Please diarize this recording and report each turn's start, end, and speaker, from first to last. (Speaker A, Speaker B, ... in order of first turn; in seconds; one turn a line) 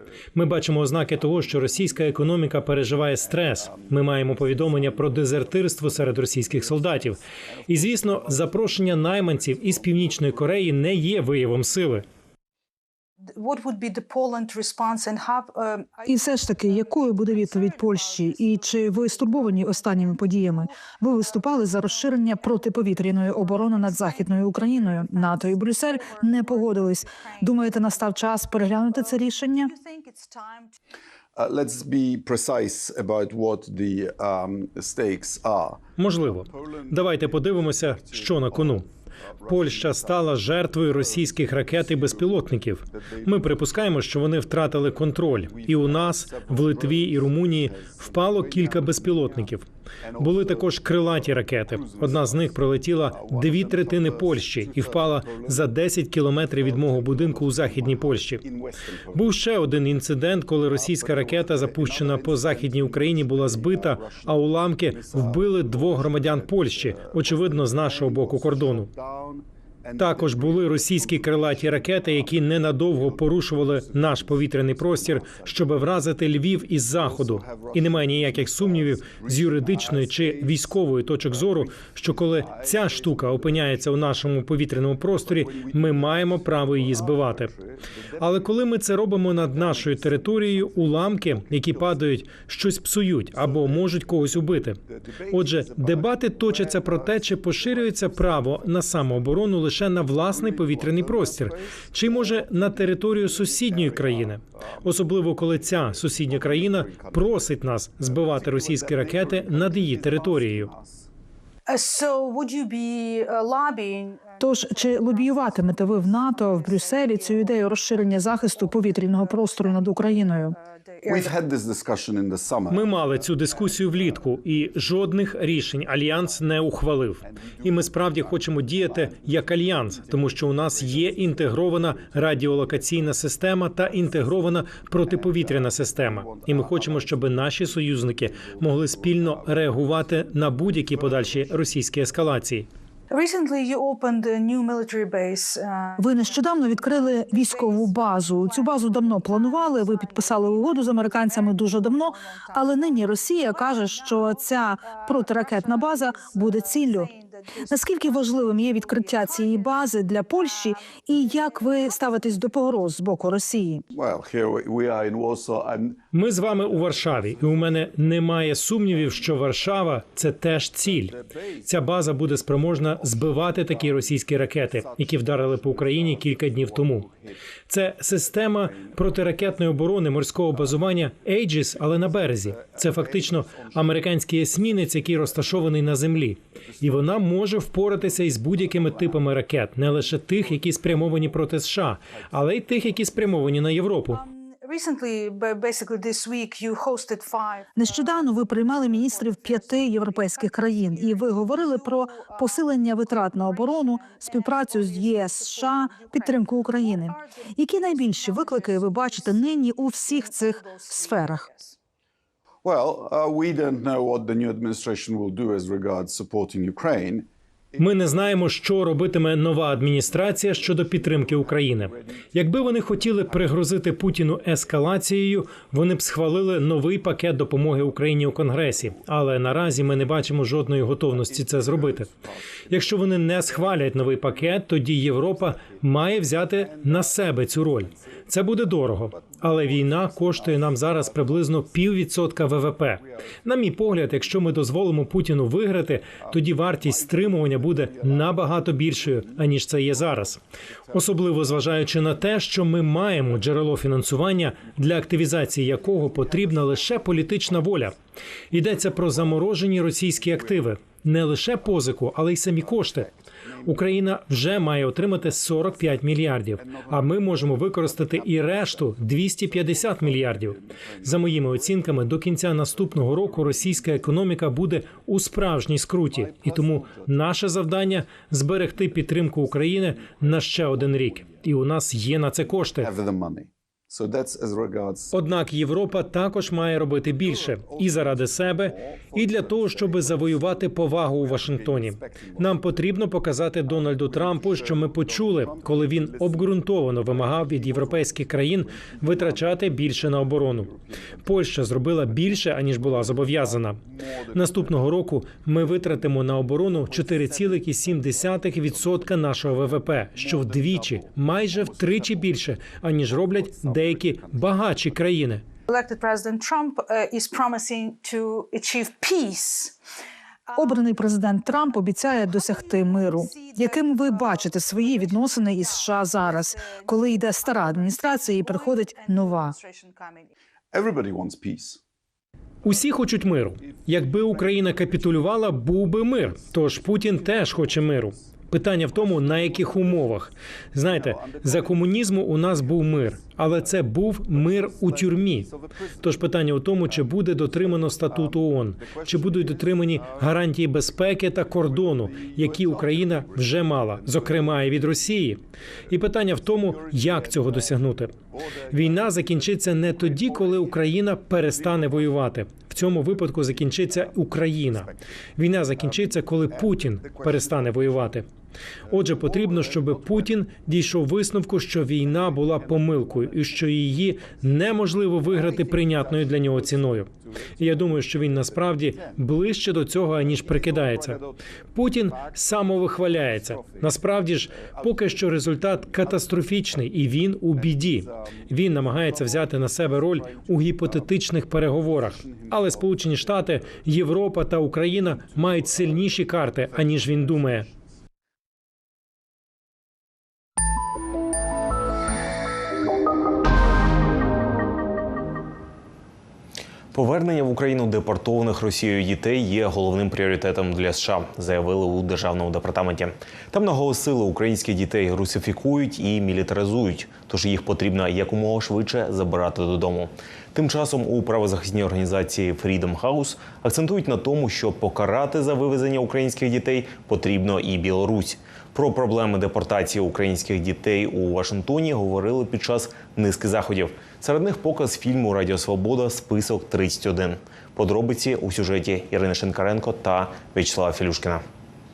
Speaker A: 0.3-12.0
Speaker B: 13.2-15.9
Speaker C: 16.0-29.8
Speaker D: 31.4-35.8
Speaker A: 36.0-38.9
Speaker A: 39.5-49.6
Speaker D: 45.7-48.4
Speaker A: 50.2-58.5
Speaker D: 51.8-52.4
Speaker D: 53.2-55.5
Speaker D: 56.8-59.2
Speaker A: 59.1-68.9
Speaker D: 61.2-70.8
Speaker A: 70.0-87.6
Speaker D: 73.5-75.5
Speaker D: 77.0-80.2
Speaker D: 85.5-86.8
Speaker A: 88.2-110.7
Speaker D: 95.9-96.5
Speaker D: 100.5-101.3
Speaker D: 106.3-107.2
Speaker D: 108.3-111.0
Speaker B: 111.7-114.3
Speaker C: 114.4-120.6
Speaker D: 121.0-123.1
Speaker A: 122.7-142.7
Speaker D: 127.4-128.1
Speaker D: 135.6-137.0
Speaker B: 143.1-146.0
Speaker C: 146.0-163.8
Speaker D: 163.9-166.0
Speaker A: 166.1-177.1
Speaker D: 175.3-176.4
Speaker A: 177.7-194.2
Speaker B: 194.1-197.7
Speaker C: 197.7-211.7
Speaker D: 212.6-217.2
Speaker A: 217.8-232.1
Speaker A: 232.7-250.4
Speaker A: 250.9-258.0
Speaker A: 258.5-263.1
Speaker A: 263.6-282.9
Speaker D: 282.8-285.1
Speaker A: 285.1-303.8
Speaker D: 291.7-292.3
Speaker A: 304.3-315.4
Speaker B: 315.7-319.8
Speaker C: 320.5-329.6
Speaker D: 330.7-331.8
Speaker A: 332.6-358.1
Speaker D: 341.2-341.5
Speaker A: 358.7-368.2
Speaker A: 368.9-381.2
Speaker A: 381.7-397.7
Speaker E: 406.9-441.4